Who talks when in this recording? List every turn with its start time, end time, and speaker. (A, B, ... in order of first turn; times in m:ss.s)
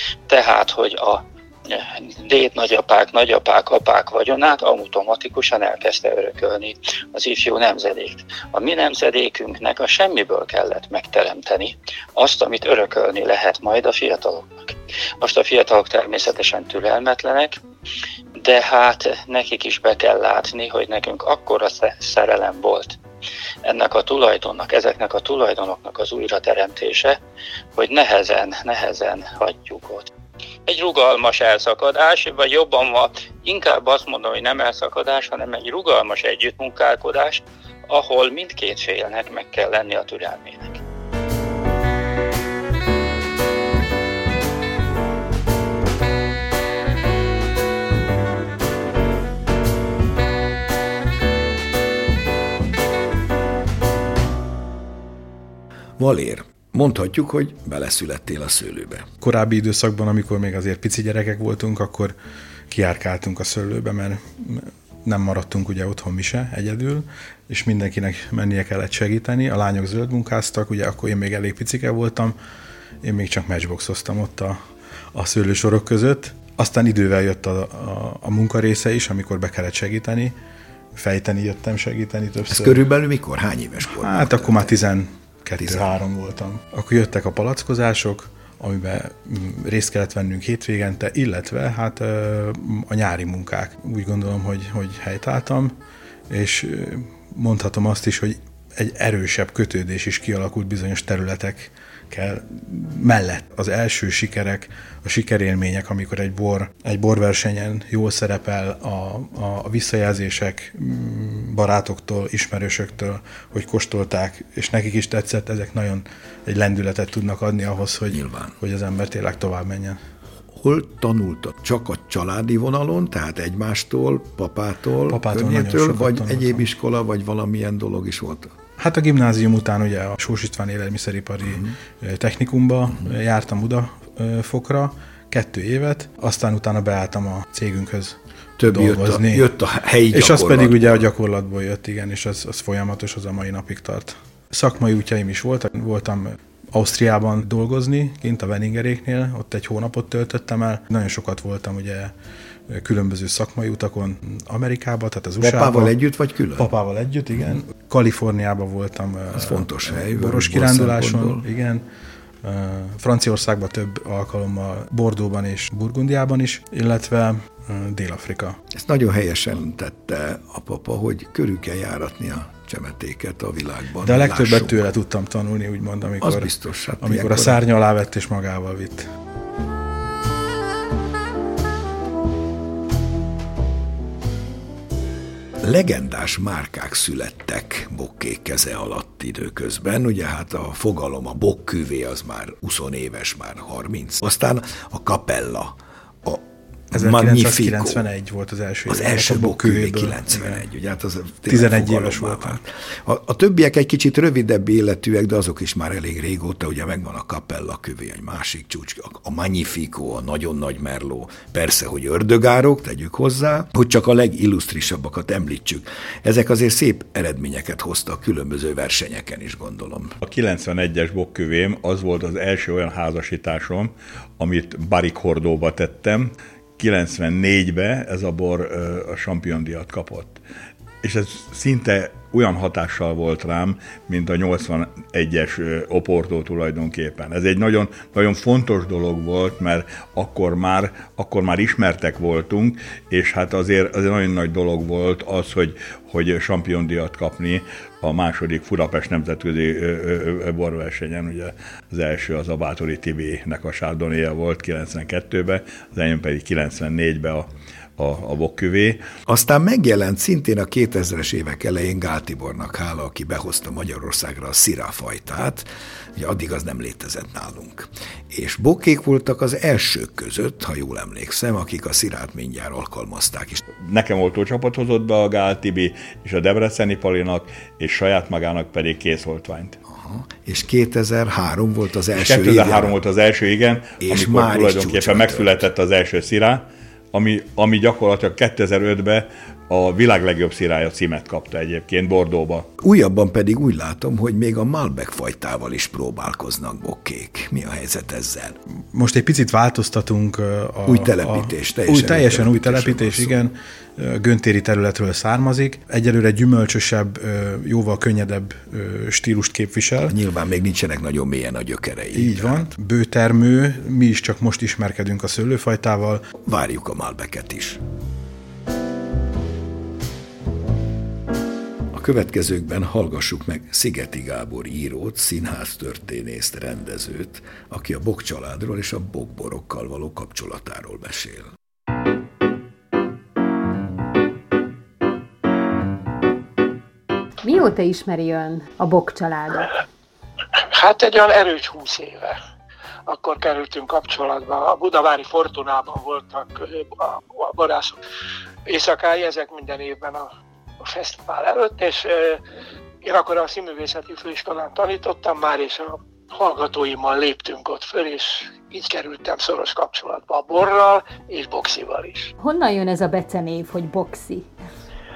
0:00.3-0:17.6 A
0:18.4-0:23.0 A
0:23.7-0:27.2 A
0:27.8-0:30.1 A
0:30.7-0:40.8 A
0:56.0-0:59.1 B
0:59.2-1:02.2 C
1:02.7-1:12.4 C
1:13.0-1:14.6 C
1:15.1-1:20.3 C
1:21.0-1:22.8 C
1:22.5-1:24.7 B
1:23.8-1:35.7 C
1:25.6-1:25.9 B
1:36.3-2:00.0 C
1:58.1-1:58.6 B
2:00.5-2:08.5 B
2:05.1-2:06.6 C
2:08.8-2:19.5 C
2:11.5-2:11.7 B
2:18.6-2:21.0 B
2:20.1-2:32.1 C
2:32.7-2:35.9 C
2:35.4-2:36.7 B
2:36.6-2:41.8 C
2:39.3-2:41.4 B
2:42.4-2:48.6 C
2:48.7-2:54.9 B
2:54.0-2:56.5 C
2:56.2-2:57.6 B
2:57.0-2:59.1 C
3:05.6-3:18.0 B
3:16.9-3:20.6 C
3:18.9-3:40.2 B
3:21.5-3:22.6 C
3:40.2-3:50.4 D
3:51.0-4:19.0 D
4:19.3-4:33.6 B
4:33.8-4:39.8 D
4:39.9-4:43.0 B
4:42.2-4:52.7 D
4:44.0-4:45.7 B
4:52.8-4:58.6 B
4:58.9-5:10.2 C
5:00.9-5:03.4 B
5:10.1-5:12.7 B
5:12.1-5:16.2 C
5:16.4-5:17.8 B
5:21.9-5:31.5 B
5:37.4-5:39.7 E
5:40.6-5:42.4 F
5:43.1-5:48.0 F
5:48.7-5:50.3 F
5:50.8-5:52.4 F
5:53.0-6:02.3 F
6:02.4-6:04.5 E